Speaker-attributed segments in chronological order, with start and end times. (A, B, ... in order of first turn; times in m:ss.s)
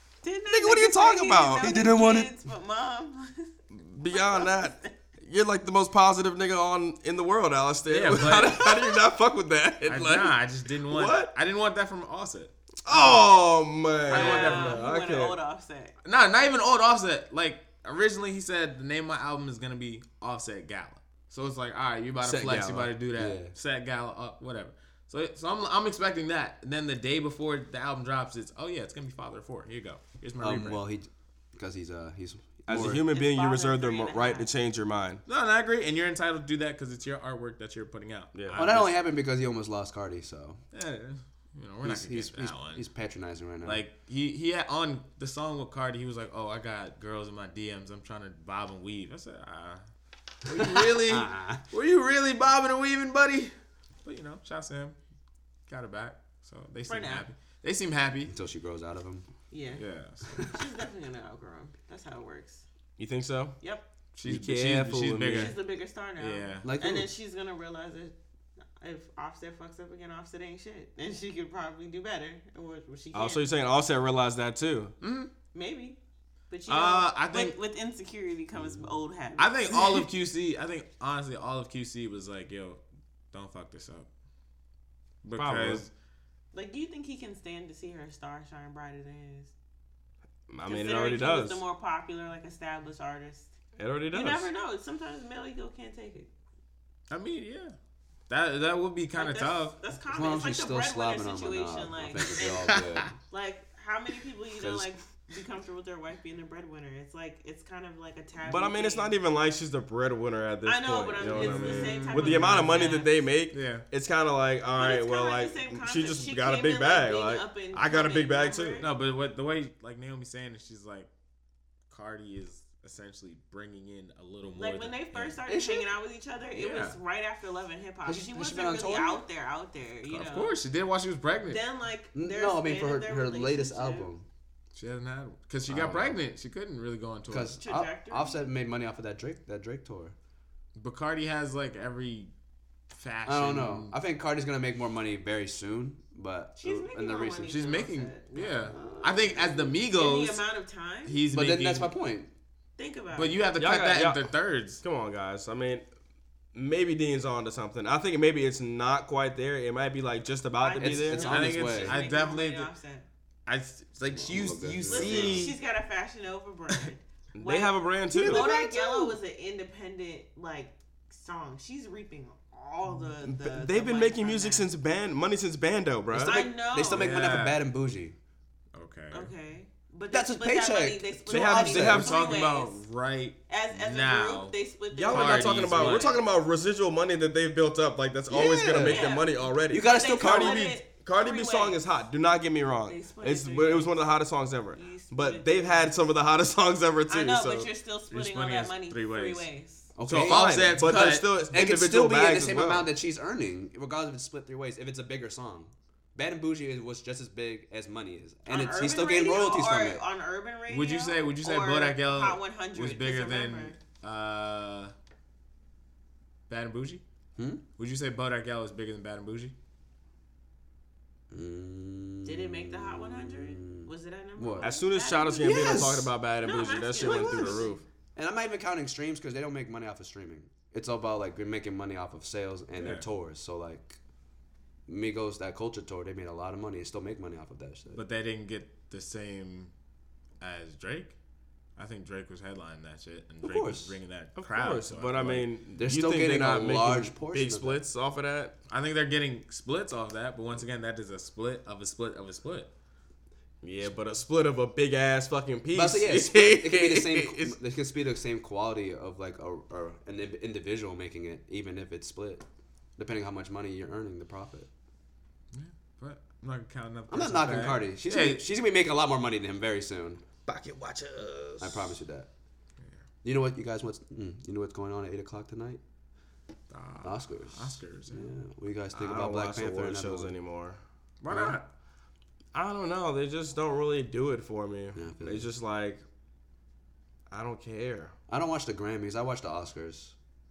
0:00.2-0:03.5 A
0:00.5-0:01.8 B
0:01.6-0:02.3 C
0:03.7-0:11.3 B
0:04.1-0:04.9 A
0:07.9-0:08.8 D
0:09.8-0:13.3 D
0:12.8-0:15.4 B
0:14.1-0:14.8 D
0:14.1-0:16.0 A
0:16.0-0:30.8 D
0:22.2-0:22.9 B
0:23.2-0:23.5 C
0:30.4-0:33.0 C
0:32.7-0:35.2 B
0:32.7-0:34.5 A
0:35.2-0:38.9 D
0:38.3-0:38.6 B
0:38.6-0:40.6 C
0:40.7-0:42.8 D
0:41.8-0:43.8 C
0:43.6-0:49.8 D
0:50.4-0:55.0 D
0:50.5-0:51.6 C
0:55.7-0:58.3 D
0:56.9-0:57.3 A
0:58.3-0:59.2 C
0:59.5-0:59.8 A
0:59.8-1:00.4 D
1:00.5-1:02.6 A
1:03.0-1:03.6 B
1:03.6-1:03.9 A
1:04.1-1:05.6 D
1:04.2-1:05.6 B
1:05.3-1:08.2 A
1:06.2-1:06.7 D
1:06.6-1:07.1 C
1:08.8-1:13.5 A
1:13.1-1:14.9 B
1:15.0-1:15.3 D
1:15.5-1:16.0 A
1:16.5-1:20.0 A
1:16.7-1:17.6 D
1:19.4-1:22.8 D
1:23.3-1:24.1 D
1:25.2-1:25.9 D
1:25.4-1:25.8 B
1:26.5-1:29.5 A
1:30.5-1:31.6 B
1:30.6-1:33.5 A
1:33.8-1:34.5 B
1:34.1-1:36.3 A
1:37.1-1:37.7 D
1:38.3-1:39.8 D
1:39.1-1:49.2 A
1:40.1-1:43.1 C
1:42.7-1:43.0 D
1:44.6-1:44.9 C
1:48.4-1:58.8 B
1:50.6-1:53.2 A
1:51.2-1:53.8 D
1:54.8-1:58.9 A
1:58.8-2:01.1 D
2:01.9-2:05.4 D
2:04.5-2:10.6 A
2:05.5-2:05.9 C
2:06.6-2:07.0 D
2:08.0-2:09.2 C
2:10.0-2:11.6 D
2:11.5-2:14.1 A
2:12.1-2:14.2 C
2:14.7-2:17.5 D
2:15.7-2:16.2 C
2:17.3-2:20.1 C
2:17.6-2:18.5 A
2:20.8-2:22.3 D
2:22.9-2:23.9 D
2:23.2-2:27.6 C
2:26.6-2:31.2 A
2:27.5-2:30.4 D
2:28.6-2:29.5 C
2:31.0-2:31.9 D
2:31.3-2:32.3 C
2:32.8-2:33.4 A
2:33.1-2:34.8 D
2:33.6-2:35.9 B
2:36.5-2:41.4 B
2:40.6-2:43.1 A
2:40.8-2:42.0 C
2:41.2-2:42.7 D
2:43.4-2:45.5 D
2:44.1-2:45.4 C
2:44.9-2:45.6 B
2:44.9-2:54.7 A
2:47.3-2:48.5 B
2:48.1-2:49.1 C
2:53.2-2:56.4 B
2:56.1-2:58.2 C
2:56.2-2:57.2 A
2:56.9-2:57.7 D
2:58.7-2:59.3 D
2:59.1-3:02.8 A
3:00.1-3:02.1 C
3:01.3-3:02.4 B
3:01.6-3:04.6 D
3:03.5-3:06.2 A
3:04.9-3:17.7 B
3:05.1-3:06.1 D
3:08.3-3:09.2 C
3:08.8-3:11.8 A
3:09.7-3:10.8 C
3:12.9-3:14.0 A
3:14.7-3:15.9 A
3:17.1-3:19.9 A
3:18.1-3:19.5 D
3:20.0-3:30.0 C
3:20.0-3:21.4 D
3:20.1-3:22.9 B
3:28.5-3:33.8 A
3:30.7-3:34.9 D
3:36.5-3:37.0 D
3:37.4-3:37.6 C
3:37.8-3:39.6 D
3:41.3-3:44.7 C
3:42.2-3:47.8 A
3:44.6-3:47.8 B
3:45.4-3:46.1 C
3:47.0-3:47.6 C
3:48.2-3:54.0 C
3:52.8-3:53.0 D
3:54.9-3:58.0 C
3:57.9-3:59.7 D
4:00.4-4:01.2 D
4:01.8-4:05.5 D
4:03.4-4:04.0 C
4:04.4-4:08.6 B
4:05.8-4:07.8 C
4:08.7-4:12.7 D
4:13.6-4:17.6 B
4:15.7-4:22.4 C
4:23.0-4:24.7 C
4:25.5-4:28.4 D
4:27.1-4:30.2 C
4:30.4-4:32.0 B
4:31.6-4:32.3 C
4:33.2-4:35.8 C
4:36.7-4:38.3 D
4:37.0-4:40.3 C
4:38.9-4:40.8 B
4:41.2-4:41.6 D
4:41.3-4:41.6 C
4:42.5-4:46.0 B
4:44.9-4:45.5 C
4:47.3-4:48.1 B
4:48.3-4:50.1 C